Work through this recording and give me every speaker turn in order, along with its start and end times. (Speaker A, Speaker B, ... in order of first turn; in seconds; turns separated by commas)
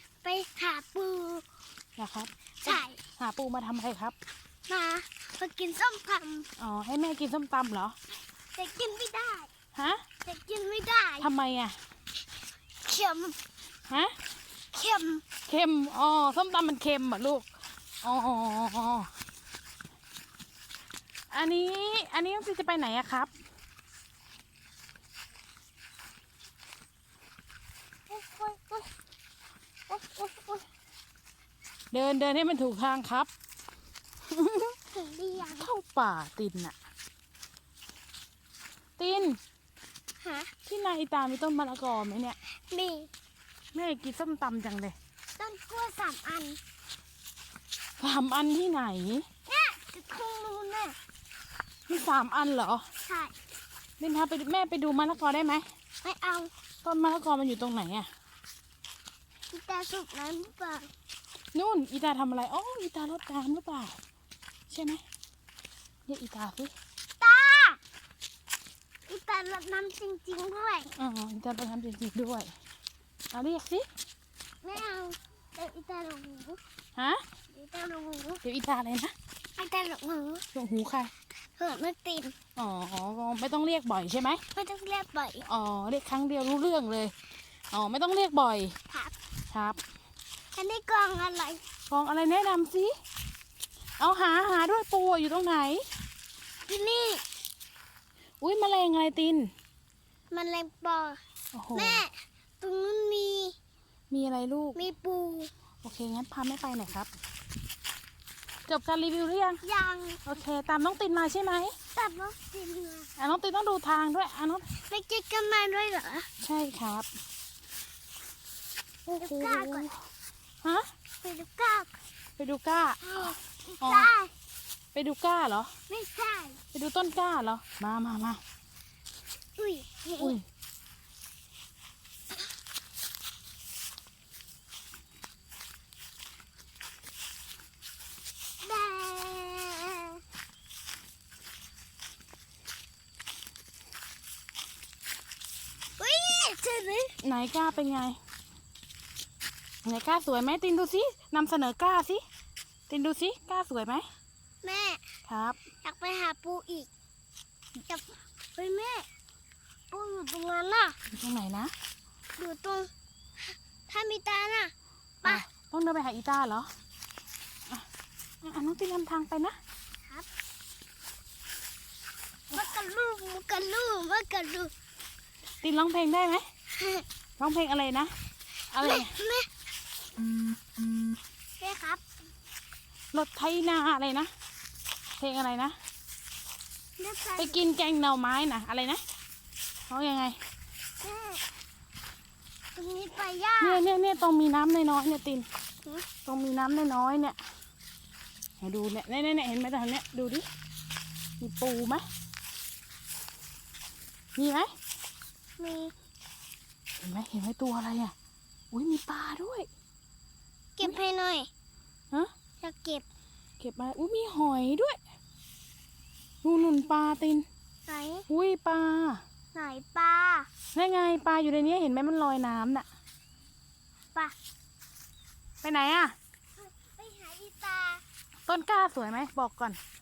Speaker A: 0.2-1.4, Speaker B: 2.0-4.1, Speaker A: 2.6-3.0, Speaker A: 4.7-6.5, Speaker B: 6.6-8.0, Speaker A: 8.5-9.5, Speaker B: 9.7-10.1, Speaker A: 10.2-11.3, Speaker B: 11.2-11.8, Speaker A: 12.8-13.4, Speaker B: 13.9-14.2, Speaker A: 14.7-15.2, Speaker B: 15.4-17.4, Speaker B: 18.0-19.1, Speaker B: 21.3-23.3, Speaker A: 28.2-28.5, Speaker B: 28.2-28.8, Speaker A: 29.9-30.6, Speaker B: 30.0-30.4, Speaker B: 31.9-33.3, Speaker B: 34.3-34.8, Speaker A: 34.9-35.7, Speaker B: 35.4-36.7, Speaker B: 39.0-39.4, Speaker A: 40.2-40.5, Speaker B: 40.6-42.4, Speaker A: 42.7-43.1, Speaker B: 43.7-45.0, Speaker A: 45.4-46.6, Speaker B: 48.0-49.3, Speaker A: 49.5-51.0, Speaker B: 51.9-52.8, Speaker A: 53.0-53.3, Speaker B: 54.0-55.6, Speaker A: 56.0-56.5, Speaker B: 56.8-58.1, Speaker A: 59.5-60.9, Speaker B: 61.5-64.0, Speaker B: 64.7-65.0, Speaker B: 66.1-66.7, Speaker A: 67.2-67.8, Speaker A: 69.1-70.9, Speaker B: 70.9-72.5, Speaker B: 73.3-73.8, Speaker A: 74.6-76.6, Speaker B: 77.0-77.2, Speaker A: 77.5-78.4, Speaker B: 78.4-79.1, Speaker A: 79.5-80.5, Speaker B: 80.5-81.1, Speaker A: 81.6-82.3, Speaker B: 82.5-84.4, Speaker A: 84.5-85.5, Speaker B: 85.4-87.1, Speaker B: 87.7-88.7, Speaker B: 89.5-89.8, Speaker A: 90.5-91.6, Speaker B: 91.9-92.9, Speaker B: 94.0-95.9, Speaker A: 96.7-97.2, Speaker B: 98.4-99.5, Speaker A: 100.3-101.2, Speaker B: 101.5-102.0, Speaker A: 101.7-103.5, Speaker B: 104.1-104.8, Speaker A: 104.8-105.5, Speaker B: 105.8-107.1, Speaker B: 108.7-109.6, Speaker A: 109.6-110.2, Speaker B: 110.2-111.7, Speaker A: 111.9-113.1, Speaker B: 113.2-114.7, Speaker A: 114.9-116.3, Speaker B: 116.4-117.1, Speaker B: 119.1-120.0, Speaker A: 119.1-119.9, Speaker A: 121.2-121.9, Speaker B: 122.4-124.1, Speaker A: 123.0-124.3, Speaker B: 124.9-125.7, Speaker A: 125.9-126.6, Speaker B: 126.7-128.4, Speaker A: 129.6-130.4, Speaker B: 130.2-130.4, Speaker A: 138.6-140.2, Speaker A: 146.0-147.2, Speaker B: 147.2-148.2, Speaker B: 149.8-152.2, Speaker B: 152.9-154.1, Speaker A: 154.6-155.0, Speaker B: 155.3-155.6, Speaker A: 155.8-156.9, Speaker A: 157.9-159.1, Speaker A: 159.9-161.0, Speaker B: 161.1-161.7, Speaker A: 162.4-165.4, Speaker B: 165.2-166.7, Speaker B: 168.4-169.6, Speaker A: 172.5-174.7, Speaker B: 175.6-176.4, Speaker A: 176.7-177.1, Speaker B: 177.4-178.1, Speaker B: 178.7-179.2, Speaker A: 178.8-179.5, Speaker A: 181.6-182.0, Speaker B: 183.1-184.3, Speaker B: 185.2-185.8, Speaker A: 187.0-187.6, Speaker B: 187.4-189.0, Speaker B: 189.9-190.3, Speaker A: 191.0-191.4, Speaker A: 192.7-193.8, Speaker B: 193.6-195.4, Speaker B: 196.2-197.4, Speaker B: 198.6-200.4, Speaker B: 201.4-202.0, Speaker B: 204.4-204.7, Speaker A: 205.6-205.9, Speaker B: 207.0-208.1, Speaker B: 208.7-209.7, Speaker A: 210.8-211.5, Speaker A: 212.6-213.0, Speaker B: 213.6-215.0, Speaker B: 216.4-217.4, Speaker A: 217.9-218.2, Speaker B: 218.3-219.2, Speaker A: 219.5-220.5, Speaker B: 220.7-222.9, Speaker B: 225.6-226.1, Speaker A: 226.6-228.0, Speaker B: 228.5-229.8